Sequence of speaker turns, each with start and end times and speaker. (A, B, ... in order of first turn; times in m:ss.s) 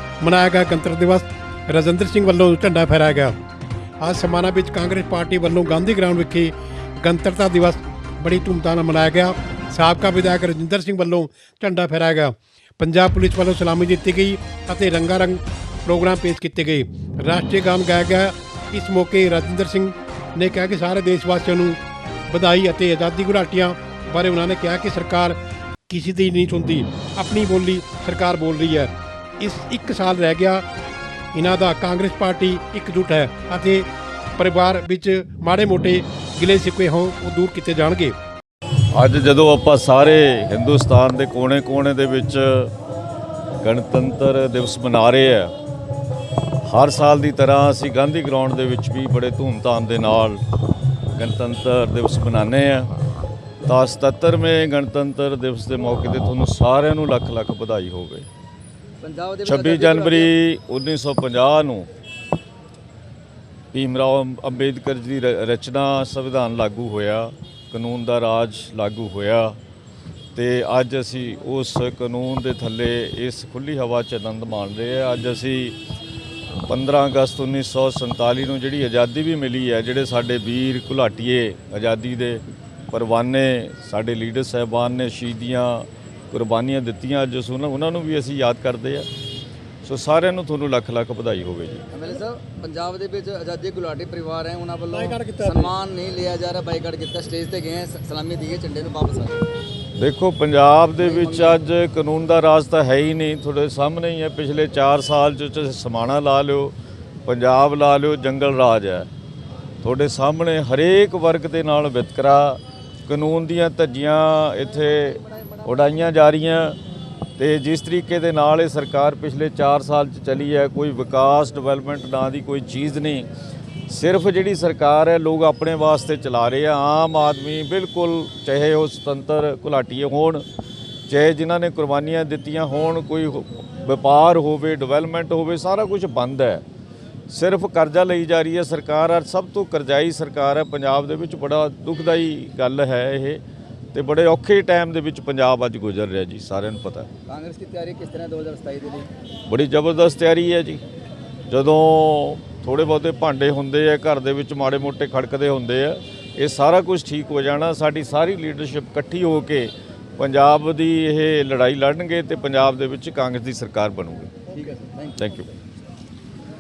0:00.2-0:03.4 A
0:04.0-0:21.8 A
0:22.3-0:25.4 A
0:25.9-0:30.6 A
0:31.3-0:38.2 A
0:38.9-0:42.7 B
0:43.6-0:45.5 B
0:46.6-0:50.4 B
0:51.2-0:52.9 B
0:53.6-0:58.3 B
0:59.0-1:00.3 C
0:59.4-1:01.9 B
1:03.7-1:09.6 B
1:10.4-1:15.8 B
1:16.7-1:29.1 B
1:29.8-1:31.8 B
1:31.9-1:39.4 C
1:34.9-1:35.7 A
1:40.0-1:46.8 B
1:41.0-1:41.6 C
1:47.3-1:49.1 B
1:49.8-1:56.8 B
1:57.4-2:03.3 B
2:03.9-2:10.4 B
2:11.1-2:16.6 B
2:17.3-2:23.4 B
2:23.9-2:27.1 B
2:27.3-2:29.1 C
2:29.5-2:30.8 B
2:31.5-2:44.3 B
2:44.5-2:45.4 C
2:45.2-2:45.5 B